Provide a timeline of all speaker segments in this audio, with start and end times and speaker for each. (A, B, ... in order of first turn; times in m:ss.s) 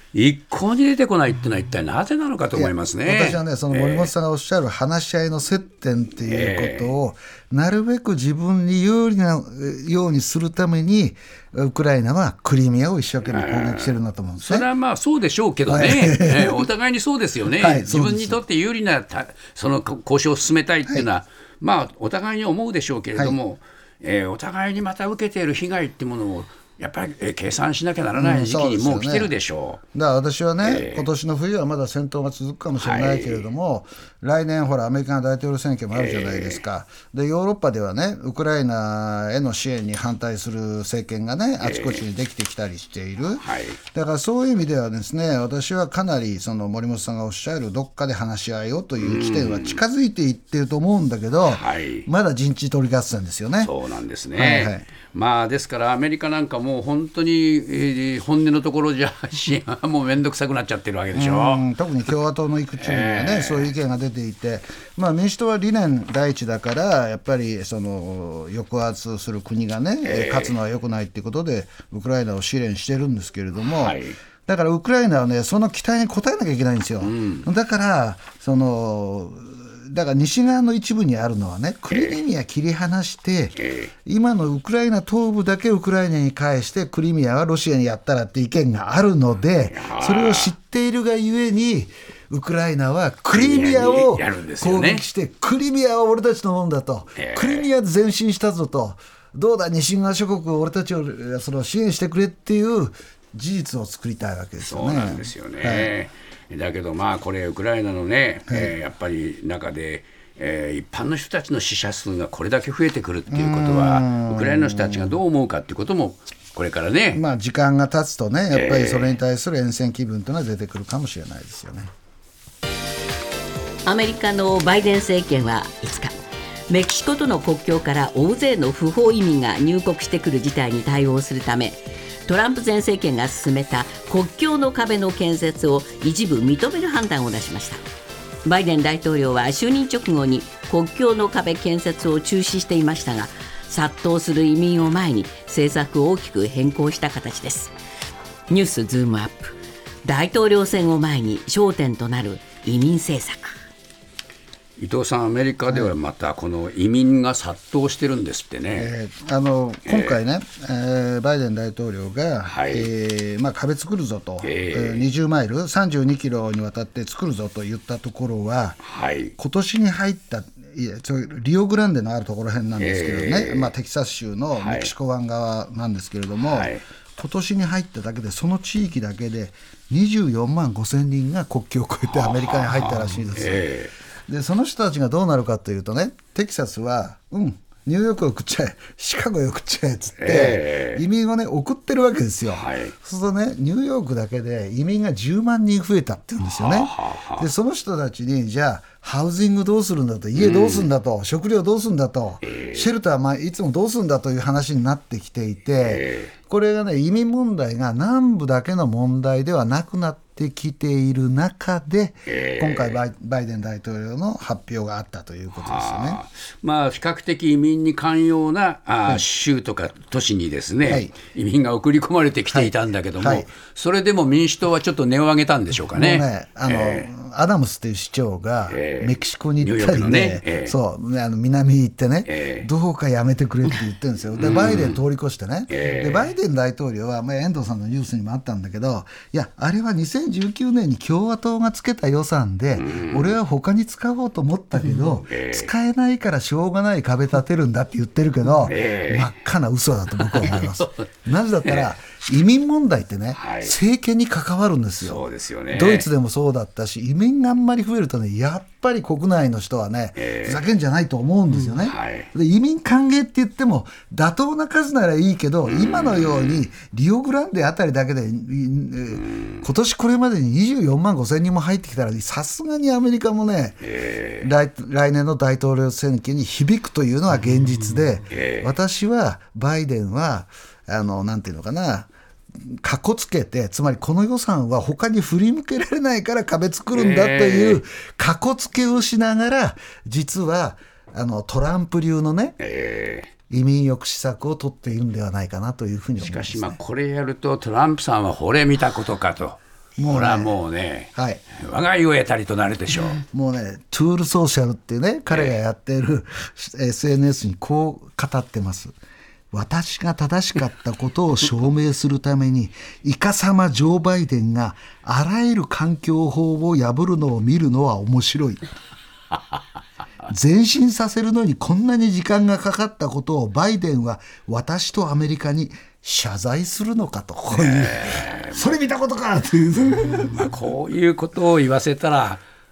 0:00.1-0:04.1 A
0:02.5-0:14.7 B
0:06.3-0:07.0 A
0:13.2-0:29.8 A
0:15.7-0:16.7 B
0:17.5-0:18.4 B
0:28.2-0:29.4 B
0:29.9-0:53.7 B
0:30.6-0:31.1 A
0:32.8-0:33.4 A
0:35.9-0:36.6 A
0:41.6-0:42.0 A
0:43.4-0:43.8 A
0:49.0-0:49.8 A
0:51.4-0:52.1 A
0:53.6-1:01.6 A
0:54.4-0:54.8 B
1:01.1-1:45.9 B
1:02.8-1:03.7 A
1:10.0-1:10.6 A
1:13.6-1:14.2 A
1:17.0-1:17.4 A
1:21.9-1:22.2 A
1:23.6-1:23.9 A
1:29.7-1:30.5 A
1:33.3-1:35.0 A
1:37.2-1:37.7 A
1:44.6-1:57.2 A
1:48.5-1:48.7 B
1:53.3-1:55.2 B
1:57.1-2:01.9 B
1:58.5-1:59.2 A
2:03.8-2:06.2 C
2:06.7-2:17.8 C
2:18.4-2:27.7 C
2:28.5-2:33.5 C
2:34.8-2:38.9 A
2:38.8-2:48.8 B
2:39.9-2:40.2 A
2:42.4-2:42.9 A
2:44.4-2:45.1 A
2:48.8-2:49.3 A
2:49.4-3:03.7 B
2:52.8-2:53.7 A
2:54.6-2:54.9 A
2:56.4-2:56.8 A
3:02.1-3:03.9 A
3:04.3-3:36.2 B
3:10.2-3:11.0 A
3:12.5-3:12.9 A
3:16.5-3:17.5 A
3:20.4-3:20.9 A
3:22.4-3:22.9 A
3:25.8-3:26.3 A
3:32.3-3:33.0 A
3:35.6-3:47.1 A
3:40.8-3:41.1 B
3:42.5-3:43.5 B
3:45.9-4:33.9 B
3:48.7-3:50.8 A
3:52.3-3:52.7 A
3:54.4-3:55.0 A
3:55.7-3:56.3 A
4:02.7-4:03.4 A
4:05.2-4:05.7 A
4:08.6-4:09.3 A
4:10.3-4:10.8 A
4:13.4-4:13.8 A
4:15.0-4:16.1 A
4:20.2-4:20.6 A
4:21.7-4:22.3 A
4:25.7-4:26.7 A
4:33.8-4:34.5 A
4:34.4-4:42.1 B
4:38.3-4:38.7 A
4:42.6-4:52.6 B
4:46.9-4:47.8 A
4:52.6-4:53.3 A
4:53.5-4:56.8 B
4:56.2-5:03.2 A
5:00.0-5:00.6 B
5:01.1-5:01.4 B
5:03.3-5:08.9 B
5:05.3-5:05.6 A
5:09.5-5:18.6 B
5:20.3-5:30.5 B
5:27.5-5:28.8 A
5:30.3-5:32.4 A